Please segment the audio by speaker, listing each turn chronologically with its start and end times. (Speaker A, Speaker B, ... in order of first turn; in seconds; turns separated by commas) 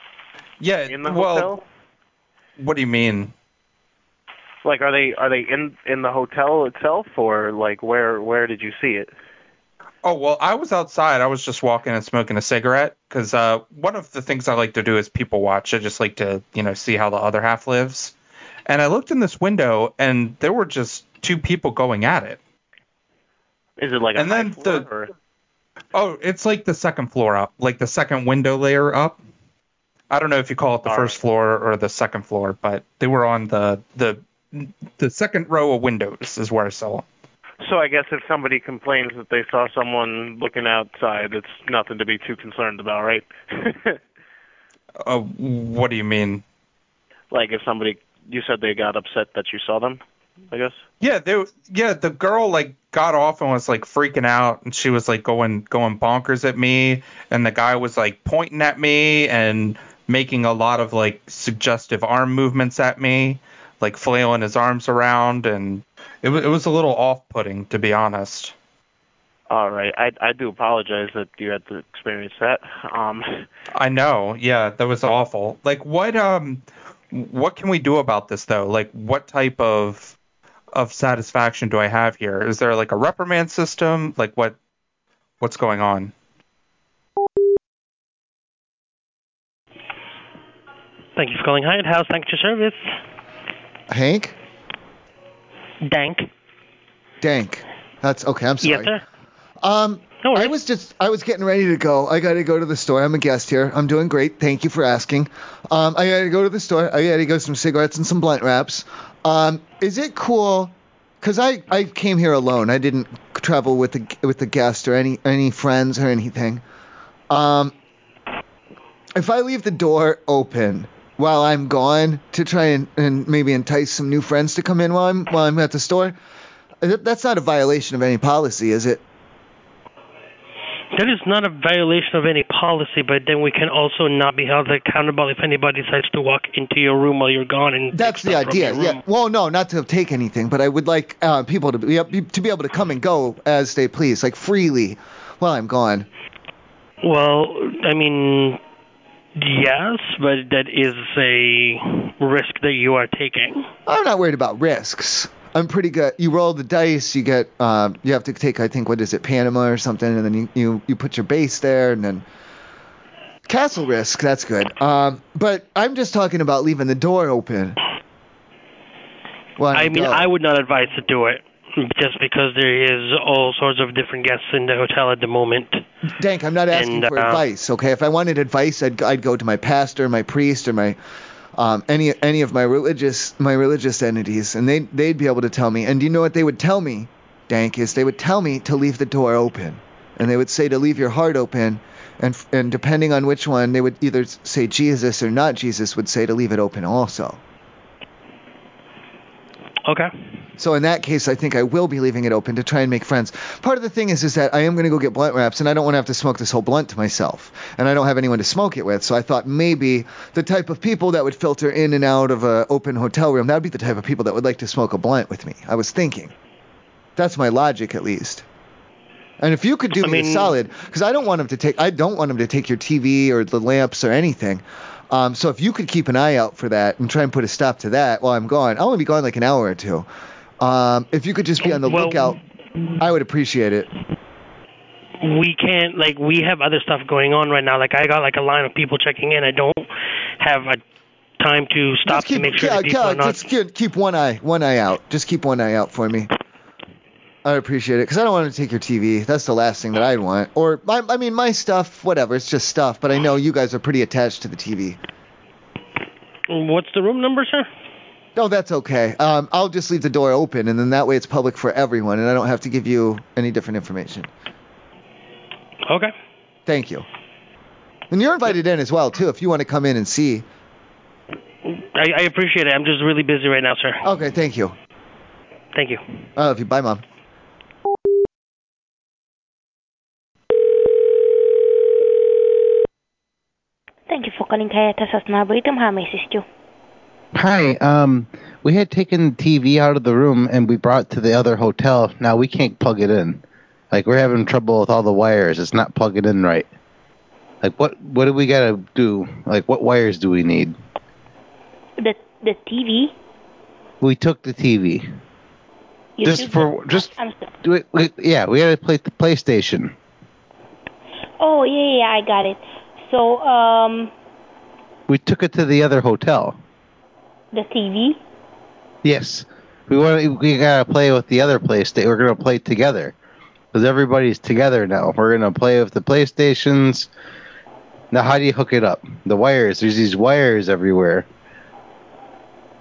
Speaker A: 0.6-1.5, Speaker B: 0.9-1.6, Speaker A: 2.6-3.3, Speaker B: 4.6-9.1, Speaker A: 10.0-18.1, Speaker A: 18.7-22.4, Speaker B: 23.8-25.1, Speaker A: 24.2-24.9, Speaker A: 25.9-29.2, Speaker A: 30.1-37.0, Speaker B: 30.9-31.2, Speaker B: 37.6-44.0, Speaker A: 45.0-46.4, Speaker B: 47.3-50.8, Speaker A: 51.0-68.5, Speaker B: 69.5-73.5, Speaker A: 73.8-80.2, Speaker A: 80.8-84.6, Speaker A: 85.4-86.1, Speaker C: 91.2-92.9, Speaker D: 93.9-94.4, Speaker C: 95.8-96.3, Speaker D: 97.2-98.9, Speaker C: 98.6-99.0, Speaker D: 99.6-116.6, Speaker C: 100.2-100.5, Speaker D: 117.3-117.7, Speaker D: 119.2-126.2, Speaker D: 126.8-129.0, Speaker C: 130.9-139.0, Speaker D: 137.9-146.1, Speaker C: 147.0-148.6, Speaker C: 149.4-153.7, Speaker D: 153.9-162.2, Speaker D: 163.5-167.8, Speaker D: 169.6-170.3, Speaker C: 169.7-175.8, Speaker D: 176.2-181.0, Speaker C: 176.7-177.4, Speaker D: 181.6-197.4, Speaker C: 199.8-200.1, Speaker D: 200.6-216.3, Speaker D: 217.2-218.4, Speaker D: 219.4-230.1, Speaker C: 220.0-220.6, Speaker D: 230.6-232.4, Speaker C: 231.6-232.4, Speaker D: 233.0-233.9, Speaker C: 235.2-239.9, Speaker C: 240.4-240.8, Speaker C: 241.4-243.4, Speaker D: 242.1-246.3, Speaker D: 247.4-255.0, Speaker C: 256.5-257.7, Speaker D: 258.4-264.3, Speaker C: 265.9-266.1, Speaker D: 266.7-267.1, Speaker D: 268.1-270.5, Speaker C: 271.7-274.0, Speaker D: 274.0-274.8, Speaker C: 275.7-276.0, Speaker D: 276.4-277.0, Speaker E: 284.1-286.4, Speaker F: 287.3-293.4, Speaker F: 293.9-296.7, Speaker F: 297.6-300.8, Speaker E: 302.0-303.1, Speaker F: 304.0-305.1, Speaker E: 306.2-307.5, Speaker F: 306.2-309.9, Speaker E: 311.4-314.1, Speaker F: 315.1-316.6, Speaker E: 317.5-318.2, Speaker F: 319.0-323.1, Speaker F: 323.7-327.1, Speaker F: 328.1-331.3